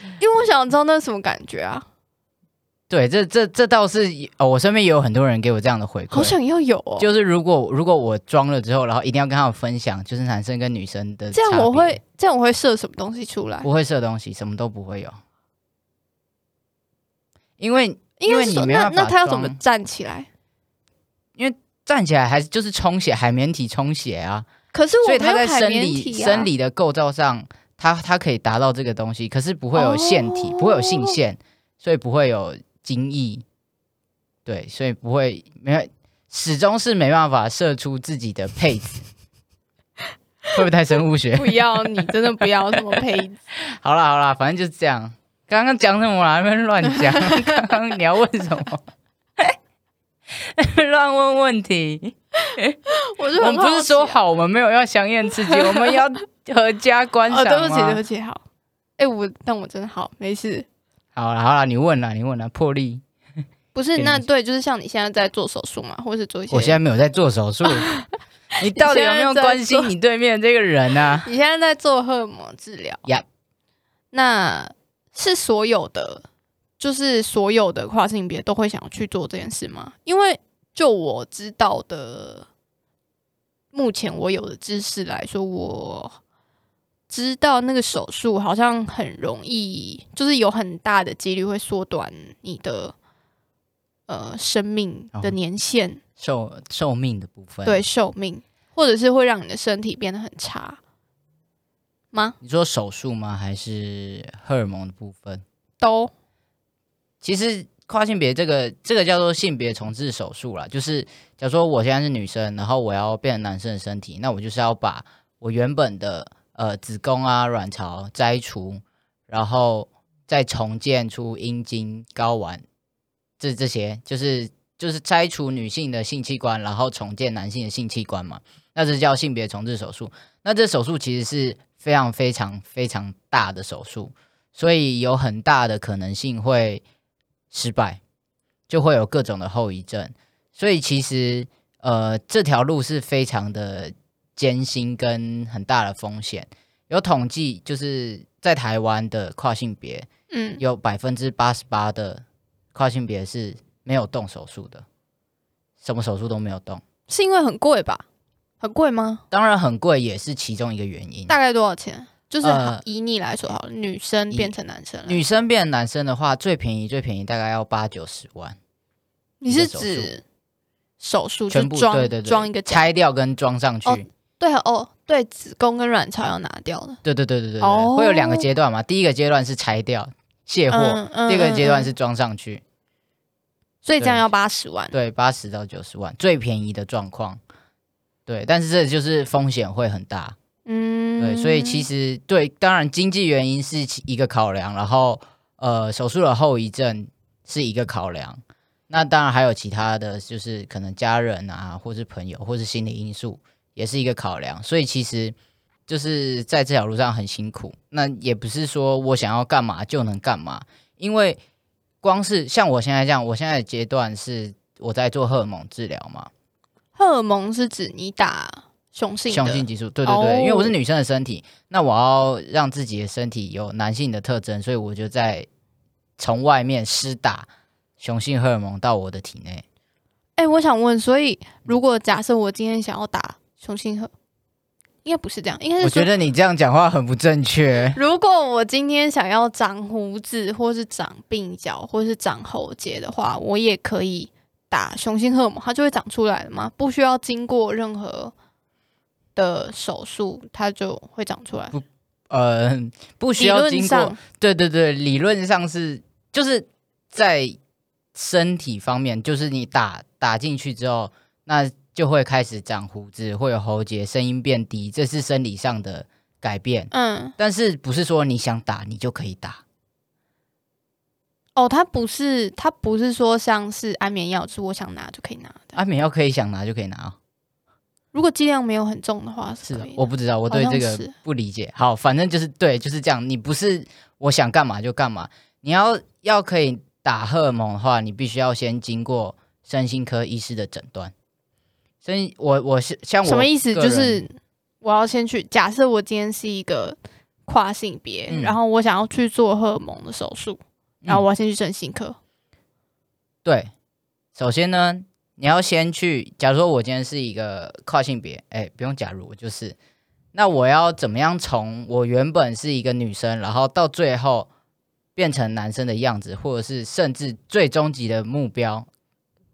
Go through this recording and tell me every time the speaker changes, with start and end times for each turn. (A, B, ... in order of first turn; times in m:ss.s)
0:00.2-0:01.8 A
0:02.9-0:06.3 B
0:06.1-0:07.1 A
0:07.0-0:12.0 B
0:11.3-0:13.7 A
0:13.6-0:15.2 B
0:17.6-0:19.6 B
0:18.2-0:20.3 A
0:21.4-0:24.5 B
0:24.7-0:26.5 A
0:25.0-0:33.4 B
0:29.7-0:31.2 A
0:34.4-0:39.0 B
0:40.5-0:42.1 B
0:41.4-0:43.4 A
0:43.7-0:48.8 B
0:47.1-0:47.6 A
0:50.4-0:52.8 B
0:52.9-0:54.2 A
0:53.4-0:58.0 B
0:55.5-0:56.0 A
0:57.3-0:58.4 A
0:59.0-1:00.6 A
1:01.1-1:03.0 B
1:03.7-1:06.8 A
1:04.0-1:04.2 B
1:06.5-1:07.9 B
1:07.7-1:08.0 A
1:08.6-1:11.3 B
1:08.6-1:09.9 A
1:11.2-1:13.0 A
1:14.1-1:16.2 A
1:16.8-1:22.5 A
1:23.7-1:26.2 A
1:27.1-1:32.9 A
1:34.1-1:36.0 A
1:36.2-1:37.8 B
1:37.6-1:40.8 A
1:42.4-1:45.4 B
1:45.8-1:46.1 A
1:47.2-2:02.6 B
2:03.4-2:16.8 B
2:17.5-2:18.0 B
2:18.7-2:30.1 B
2:30.3-2:30.6 A
2:30.6-2:32.2 B
2:32.7-2:34.8 B
2:35.8-2:36.8 B
2:37.1-2:38.0 A
2:38.6-2:39.2 A
2:39.3-2:41.3 B
2:41.3-2:45.2 A
2:42.4-2:42.8 B
2:45.0-2:48.6 B
2:49.4-2:50.2 A
2:49.5-2:50.1 B
2:51.0-2:52.9 A
2:51.5-2:54.0 B
2:53.8-2:57.0 A
2:57.0-3:02.6 B
2:57.6-2:58.5 A
3:00.7-3:01.9 A
3:03.8-3:04.9 A
3:04.0-3:04.2 B
3:04.9-3:07.4 B
3:08.3-3:10.4 B
3:10.6-3:11.9 A
3:11.2-3:25.3 B
3:25.9-3:31.4 B
3:32.0-3:36.3 B
3:37.0-3:40.7 A
3:39.3-3:45.5 B
3:46.2-3:47.5 B
3:48.0-3:49.6 B
3:50.4-3:54.1 A
3:55.0-3:56.1 A
3:55.8-3:58.0 B
3:57.9-4:08.3 A
4:09.4-4:11.7 A
4:11.7-4:17.6 B
4:13.4-4:14.2 A
4:18.1-4:29.6 B
4:26.9-4:27.3 A
4:31.6-4:35.8 A
4:35.7-4:37.2 B
4:38.1-4:41.1 A
4:39.6-4:51.1 B
4:52.0-4:54.2 B
4:53.2-5:02.2 A
4:58.3-4:58.6 B
5:03.4-5:03.7 B
5:04.3-5:09.8 B
5:10.3-5:14.5 B
5:15.2-5:18.9 B